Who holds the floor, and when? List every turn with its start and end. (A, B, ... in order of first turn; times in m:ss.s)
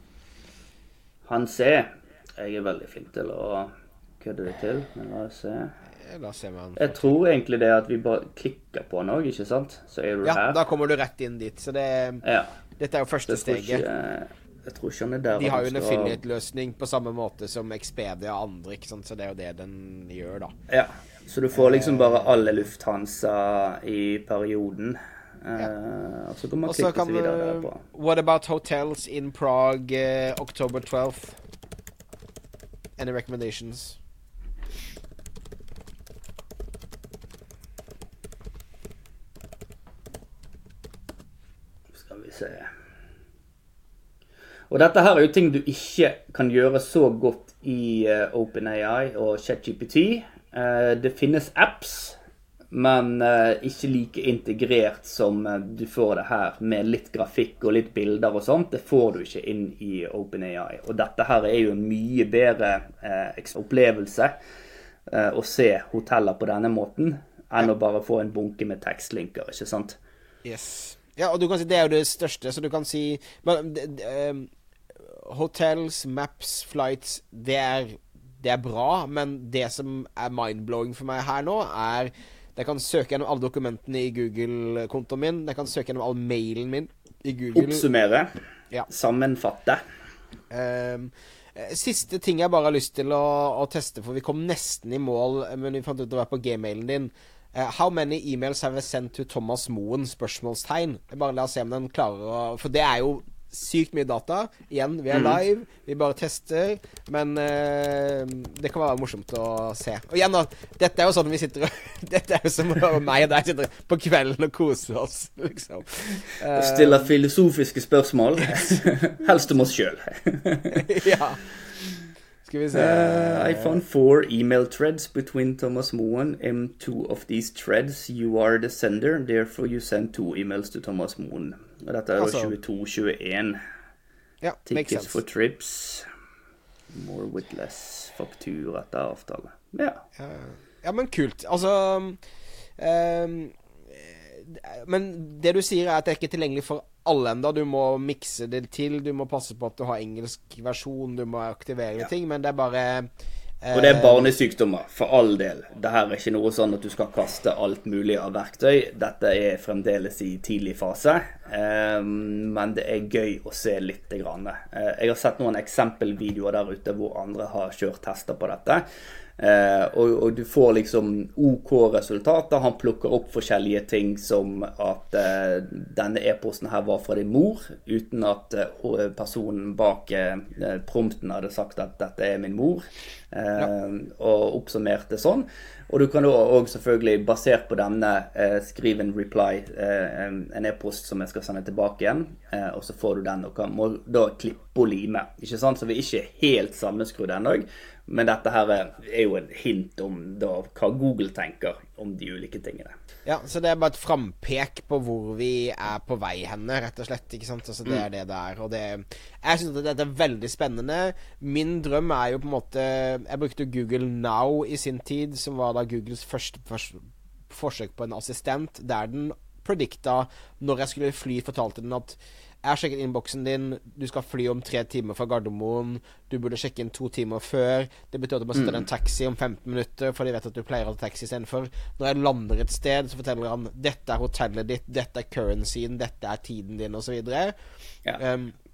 0:01.3-0:05.8 A
0:06.0-0:07.1 B
0:06.8-0:10.6 A
0:10.2-0:12.2 B
0:12.2-0:12.6 A
0:12.8-0:13.8 B
0:13.3-0:16.2 A
0:15.3-0:20.5 B
0:20.7-0:27.8 A
0:21.5-0:22.3 B
0:26.6-0:31.4 B
0:33.0-0:34.0 B
0:41.9-0:42.7 A
0:44.7-0:52.2 A
0:52.7-1:04.4 A
1:05.1-1:10.0 A
1:10.4-1:27.8 B
1:27.6-1:28.3 A
1:28.9-1:29.8 A
1:30.5-1:57.1 B
1:45.1-1:45.4 A
1:56.5-2:00.9 A
2:00.7-2:01.4 B
2:02.4-2:03.8 B
2:02.7-2:13.6 A
2:12.2-2:12.5 B
2:14.4-2:15.2 B
2:14.7-2:16.1 A
2:16.9-2:20.0 A
2:20.2-2:22.2 B
2:22.8-2:33.1 B
2:33.6-2:34.3 B
2:33.7-2:48.8 A
2:49.4-3:22.9 A
3:23.3-3:57.5 B
3:48.6-3:48.9 A
3:58.2-3:58.6 B